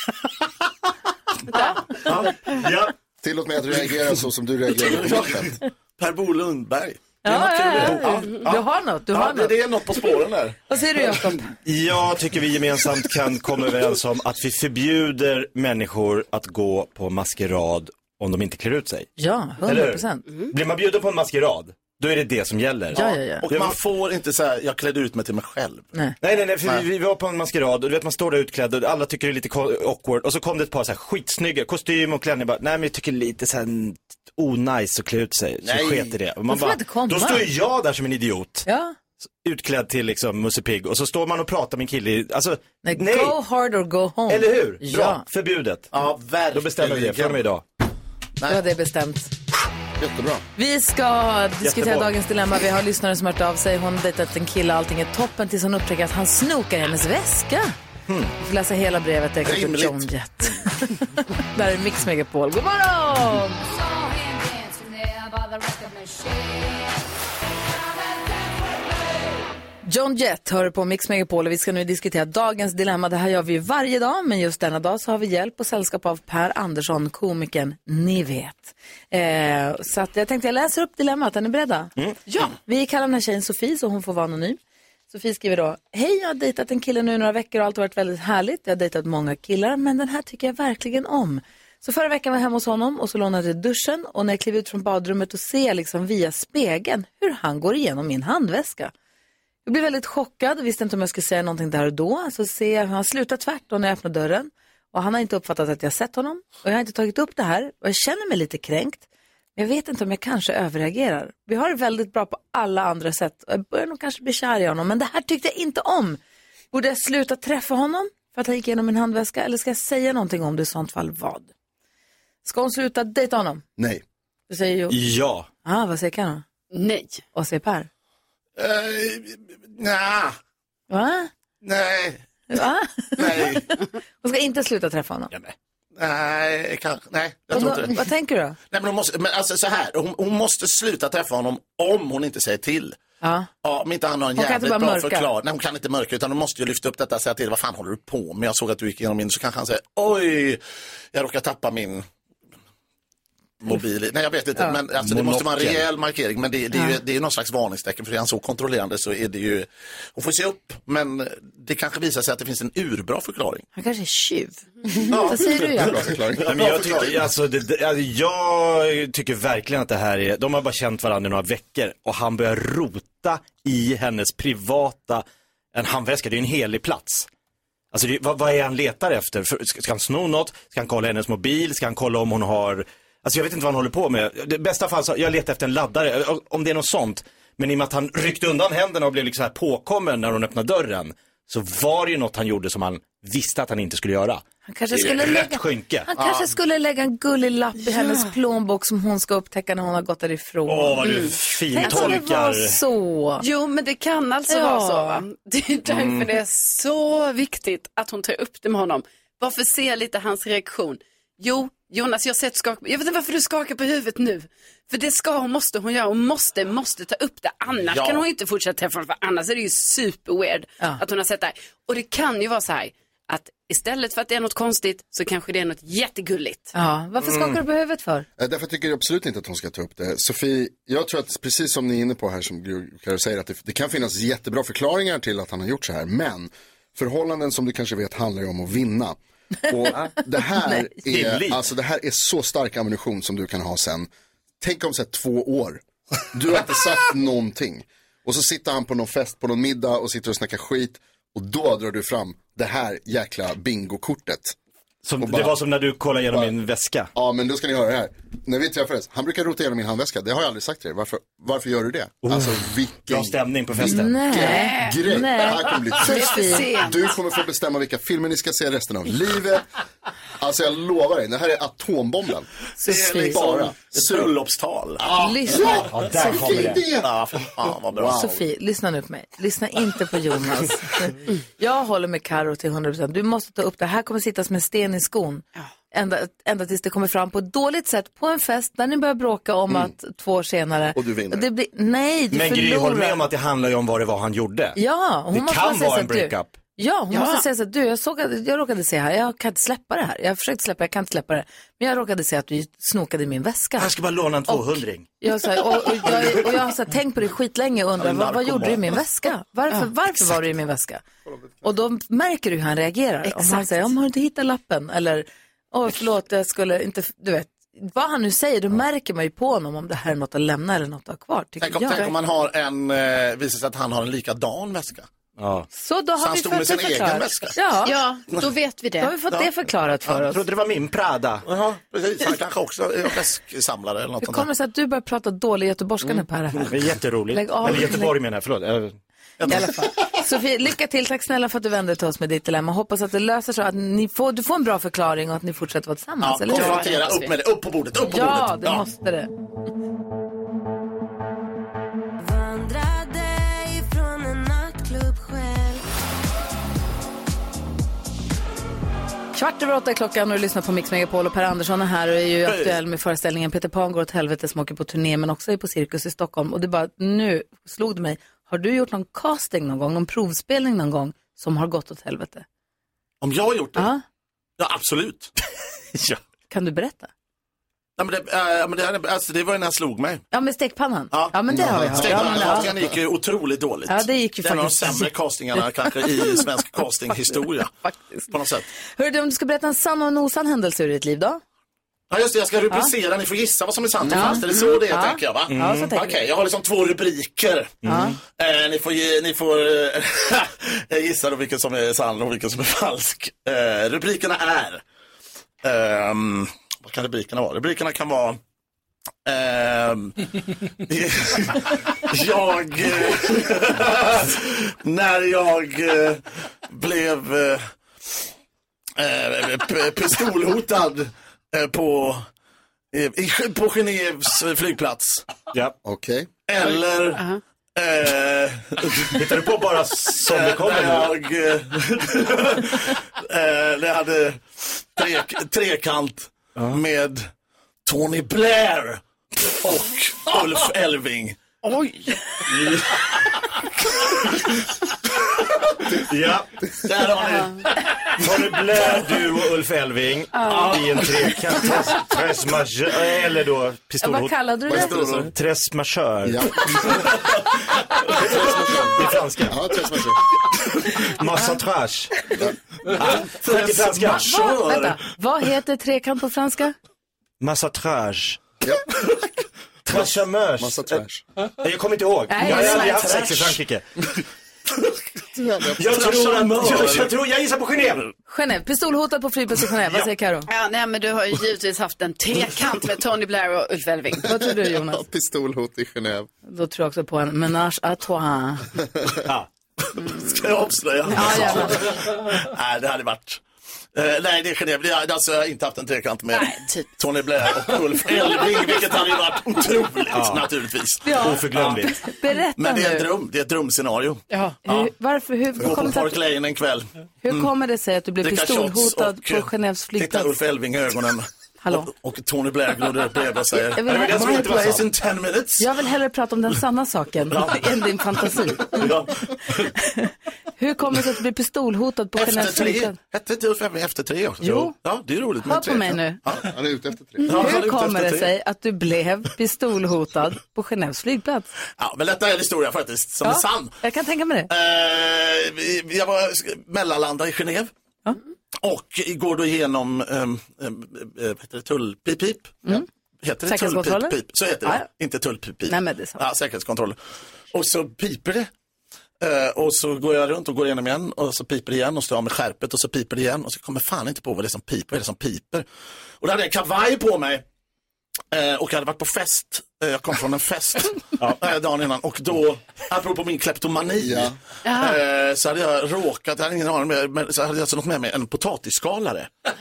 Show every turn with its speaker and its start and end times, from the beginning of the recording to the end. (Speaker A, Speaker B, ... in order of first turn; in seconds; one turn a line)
Speaker A: 1.5-1.9
Speaker B: 2.0-2.7
Speaker C: 2.5-2.9
Speaker D: 3.2-5.5
Speaker B: 4.7-11.3
Speaker E: 7.2-10.0
Speaker E: 10.7-11.5
Speaker C: 11.7-19.1
Speaker E: 19.2-20.2
Speaker C: 19.6-23.8
Speaker E: 22.9-23.5
Speaker B: 23.4-25.9
Speaker C: 26.2-38.7
Speaker B: 35.6-36.1
Speaker E: 36.5-37.5
Speaker E: 38.7-39.0
Speaker C: 39.4-43.4
Speaker E: 42.8-45.2
Speaker C: 44.3-45.9
Speaker B: 45.9-47.4
Speaker C: 46.5-47.6
Speaker E: 48.5-49.3
Speaker D: 50.0-50.4
Speaker E: 50.6-57.7
Speaker C: 51.6-52.1
Speaker C: 58.1-58.3
Speaker E: 58.4-63.6
Speaker B: 59.5-60.1
Speaker F: 63.6-67.1
Speaker F: 67.7-69.4
Speaker E: 69.8-81.9
Speaker A: 82.3-82.5
Speaker E: 82.7-84.6
Speaker E: 85.1-98.9
Speaker E: 99.7-109.0
Speaker E: 109.6-116.2
Speaker E: 116.7-121.5
Speaker E: 122.4-123.6
Speaker D: 123.8-124.0
Speaker E: 124.5-125.0
Speaker C: 124.9-125.5
Speaker E: 125.7-126.4
Speaker A: 126.7-127.2
Speaker E: 127.3-127.9
Speaker B: 128.6-130.4
Speaker E: 130.9-131.3
Speaker B: 131.6-132.2
Speaker E: 132.5-135.3
Speaker B: 133.2-133.7
Speaker B: 136.0-138.0
Speaker E: 137.5-138.6
Speaker B: 138.7-143.0
Speaker E: 143.2-143.5
Speaker B: 143.6-150.6
Speaker E: 144.3-145.3
Speaker B: 151.1-152.1
Speaker B: 153.6-163.7
Speaker C: 155.0-155.9
Speaker E: 156.7-157.0
Speaker E: 163.8-166.0
Speaker B: 165.0-167.2
Speaker D: 165.7-167.1
Speaker C: 166.4-177.3
Speaker C: 177.9-194.4
Speaker E: 194.7-201.2
Speaker C: 194.9-196.1
Speaker B: 196.2-196.5
Speaker A: 197.9-198.3
Speaker C: 200.7-202.8
Speaker A: 201.0-202.2
Speaker E: 201.7-203.4
Speaker A: 203.4-226.7
Speaker E: 204.5-205.2
Speaker B: 205.9-206.3
Speaker B: 217.8-218.2
Speaker E: 226.7-228.3
Speaker D: 228.4-244.1
Speaker C: 241.1-241.6
Speaker D: 244.6-254.6
Speaker C: 255.0-257.1
Speaker D: 255.2-255.5
Speaker D: 257.1-269.6
Speaker C: 262.2-264.2
Speaker E: 263.8-266.7
Speaker A: 264.3-265.0
Speaker A: 266.0-267.2
Speaker D: 270.4-272.5
Speaker E: 272.8-273.4
Speaker B: 272.8-275.1
Speaker D: 273.2-274.3
Speaker D: 275.0-277.1
Speaker E: 275.1-276.4
Speaker C: 275.6-276.9
Speaker B: 277.0-278.3
Speaker D: 277.9-278.4
Speaker E: 278.1-293.2
Speaker D: 290.9-291.5
Speaker C: 292.3-294.8
Speaker E: 294.8-303.9
Speaker C: 295.3-296.6
Speaker A: 297.1-297.4
Speaker C: 303.8-305.1
Speaker E: 304.5-311.0
Speaker B: 306.1-306.4
Speaker B: 308.0-309.0
Speaker E: 311.6-322.1
Speaker A: 313.3-313.9
Speaker B: 321.6-325.1
Speaker C: 325.4-325.7
Speaker E: 325.7-328.0
Speaker B: 326.2-327.6
Speaker A: 327.9-329.1
Speaker E: 329.0-330.4
Speaker C: 330.2-331.4
Speaker B: 331.4-334.5
Speaker E: 334.2-336.7
Speaker B: 336.1-336.7
Speaker C: 336.7-338.9
Speaker E: 337.3-338.1
Speaker B: 339.4-339.9
Speaker E: 339.5-346.9
Speaker B: 346.2-348.9
Speaker A: 346.5-347.4
Speaker E: 348.1-349.3
Speaker F: 352.2-355.8
Speaker E: 359.4-372.4
Speaker B: 362.4-362.8
Speaker B: 373.2-373.9
Speaker E: 373.8-374.0
Speaker B: 374.6-375.3
Speaker E: 376.5-377.1
Speaker B: 378.0-380.2
Speaker E: 380.3-382.7
Speaker B: 381.1-387.7
Speaker D: 381.5-382.5
Speaker E: 383.9-386.3
Speaker E: 387.8-391.4
Speaker B: 388.3-388.7
Speaker B: 392.1-404.8
Speaker E: 394.1-396.2
Speaker C: 395.5-395.9
Speaker C: 397.8-398.2
Speaker E: 397.8-398.2
Speaker B: 405.6-408.4
Speaker B: 409.3-410.2
Speaker B: 410.9-417.7
Speaker B: 419.0-422.2
Speaker B: 422.9-425.3
Speaker D: 425.8-426.3
Speaker B: 426.5-427.2
Speaker A: 427.2-427.4
Speaker B: 427.8-429.2
Speaker C: 429.1-431.2
Speaker B: 430.2-437.3
Speaker B: 437.9-442.0
Speaker C: 442.5-442.8
Speaker C: 445.9-446.7
Speaker B: 446.8-447.6
Speaker A: 447.2-447.6
Speaker C: 448.2-456.6
Speaker A: 450.3-450.9
Speaker E: 454.0-455.0
Speaker D: 454.7-455.3
Speaker B: 454.7-455.3
Speaker D: 456.2-456.9
Speaker D: 458.2-460.2
Speaker C: 458.4-459.6
Speaker C: 461.1-462.1
Speaker C: 462.9-464.6
Speaker B: 463.4-465.0
Speaker E: 464.1-466.8
Speaker C: 467.4-468.4
Speaker C: 469.9-471.0
Speaker D: 469.9-471.2
Speaker C: 471.6-473.8
Speaker E: 472.3-473.1
Speaker B: 472.4-473.6
Speaker D: 475.4-475.8
Speaker C: 475.6-478.1
Speaker B: 475.8-477.1
Speaker E: 478.3-480.5
Speaker A: 480.5-484.3
Speaker E: 484.2-485.1
Speaker D: 484.3-486.3
Speaker E: 486.5-488.6
Speaker B: 490.1-493.4
Speaker E: 491.1-491.9
Speaker B: 493.9-501.9
Speaker A: 496.3-496.9
Speaker C: 500.1-500.5
Speaker E: 501.0-503.1
Speaker C: 501.1-502.0
Speaker B: 502.6-504.9
Speaker A: 504.3-504.6
Speaker E: 504.6-506.2
Speaker B: 505.6-507.5
Speaker E: 507.2-510.4
Speaker B: 508.2-515.8
Speaker E: 511.6-511.9
Speaker E: 513.8-514.2
Speaker C: 513.8-514.9
Speaker E: 515.6-518.9
Speaker B: 517.3-519.3
Speaker E: 519.8-523.0
Speaker B: 522.2-526.5
Speaker E: 524.4-524.8
Speaker E: 525.4-526.2
Speaker D: 526.3-527.3
Speaker B: 527.2-528.3
Speaker E: 527.3-531.5
Speaker B: 531.8-533.7
Speaker E: 533.2-534.5
Speaker B: 534.5-537.7
Speaker B: 538.6-547.0
Speaker E: 543.4-544.9
Speaker E: 545.7-546.2
Speaker B: 547.5-548.5
Speaker B: 549.2-555.7
Speaker B: 556.2-557.5
Speaker B: 558.3-569.3
Speaker D: 564.0-564.4
Speaker A: 564.6-565.0